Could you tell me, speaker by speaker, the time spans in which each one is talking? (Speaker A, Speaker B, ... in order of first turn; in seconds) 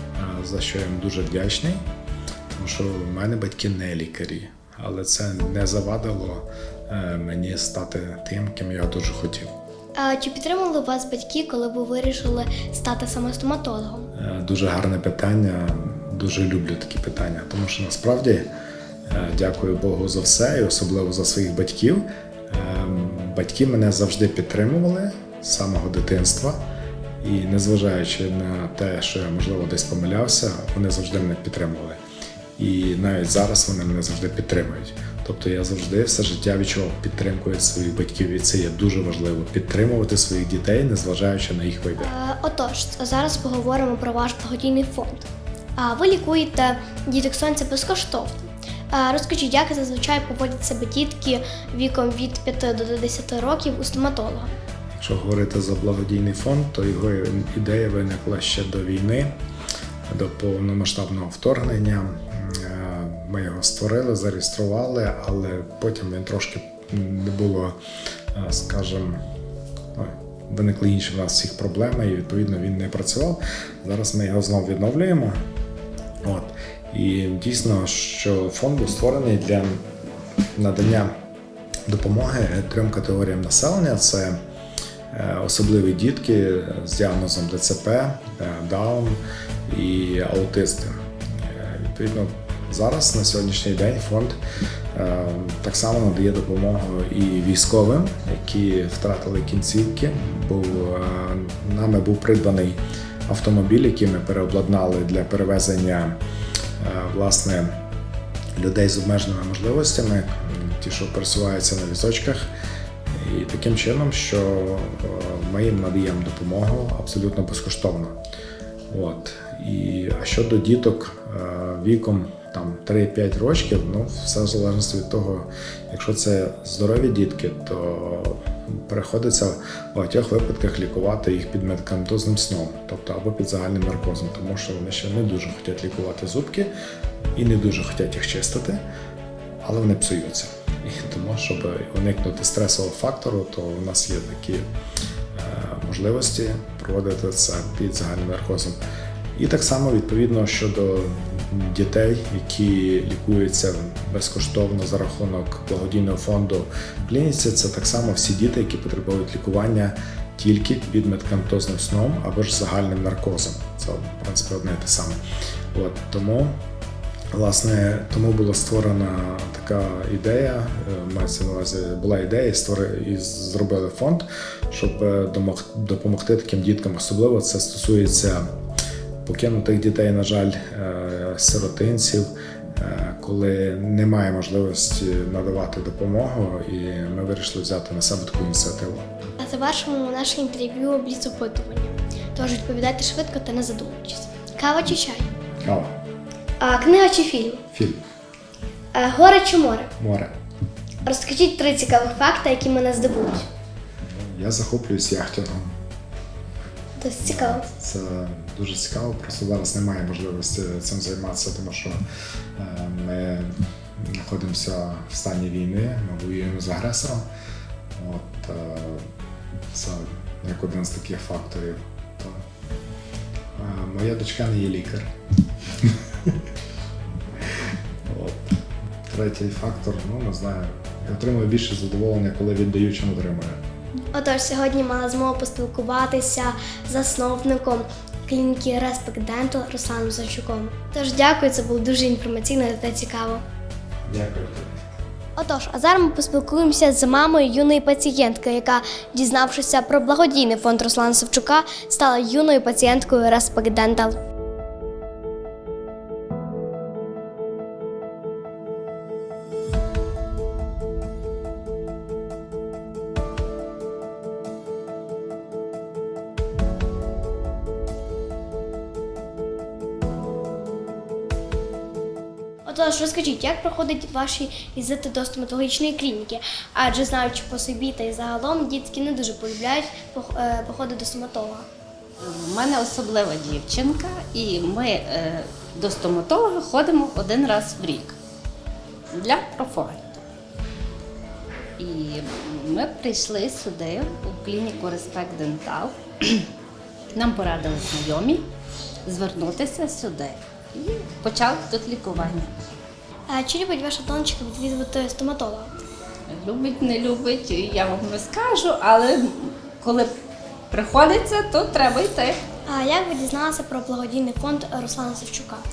Speaker A: 0.1-1.9, 2.5-9.5, 14.1-18.5, 19.1-26.6, 27.2-32.0, 32.6-42.1, 54.9-59.3, 60.1-67.8, 68.3-69.2, 69.9-75.4, 76.2-79.8, 80.5-81.1, 81.9-84.4, 85.1-94.4, 94.9-106.2, 106.8-107.8, 108.5-112.5, 113.1-118.2, 118.9-136.7, 137.3-138.8, 139.6-144.7, 145.3-148.8, 149.3-165.2, 165.7-166.5, 167.3-178.4, 179.2-189.1, 195.6-196.0, 197.7-198.0, 200.0-200.3, 204.1-205.8, 207.2-212.0, 212.6-217.2, 217.9-219.0, 219.7-222.4, 223.6-225.1, 225.8-226.4, 228.1-228.5, 229.1-233.6, 244.1-244.8
Speaker B: 10.0-14.1, 42.0-54.5, 189.4-195.3, 196.6-197.6, 198.9-199.9, 201.0-203.5, 207.0-207.7, 234.1-243.4, 245.3-254.2, 272.6-281.7, 303.3-305.7, 312.7-315.6
Speaker C: 282.2-288.1, 289.1-290.2, 291.8-296.5, 297.1-298.5, 299.1-302.5, 306.3-310.1, 310.7-312.4